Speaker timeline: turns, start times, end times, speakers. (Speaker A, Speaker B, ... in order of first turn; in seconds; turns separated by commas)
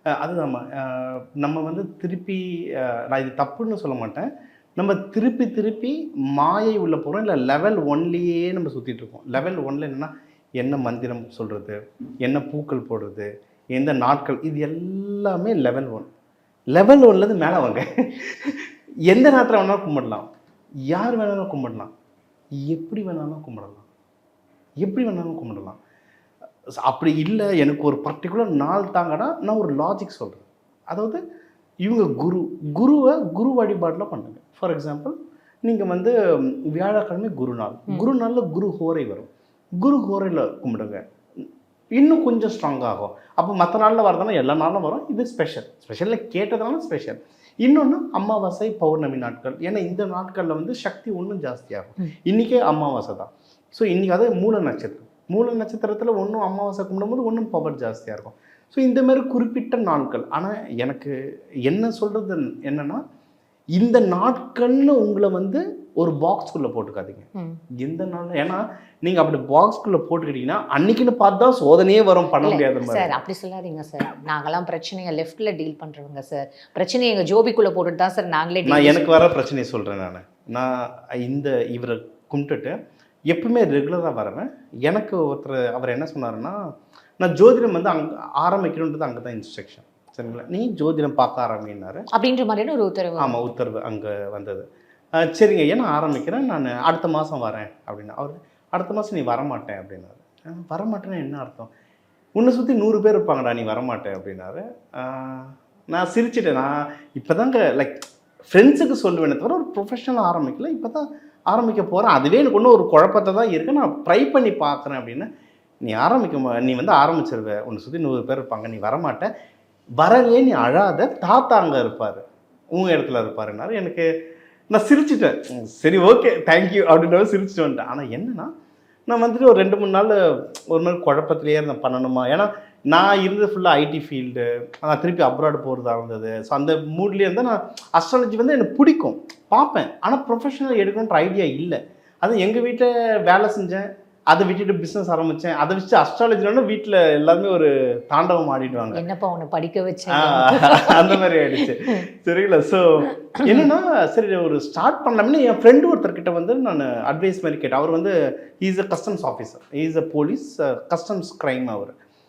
Speaker A: 0.2-16.1, Speaker A: 16.7-20.3, Speaker A: 20.9-21.9, Speaker A: 22.6-23.9, Speaker A: 24.8-25.8, Speaker A: 26.8-31.2, Speaker A: 31.8-41.0, Speaker A: 42.0-61.1, Speaker A: 61.7-63.0, Speaker A: 63.7-67.3, Speaker A: 67.8-73.1, Speaker B: 72.4-79.0, Speaker A: 78.7-82.7, Speaker A: 83.3-86.6, Speaker A: 87.2-92.0, Speaker B: 92.1-93.4, Speaker A: 93.2-94.6, Speaker A: 95.2-101.7, Speaker A: 102.4-115.3, Speaker A: 115.8-119.3, Speaker A: 120.0-122.2, Speaker A: 122.7-124.1, Speaker A: 124.7-128.5, Speaker A: 129.1-149.0, Speaker B: 148.9-152.1, Speaker A: 150.1-161.9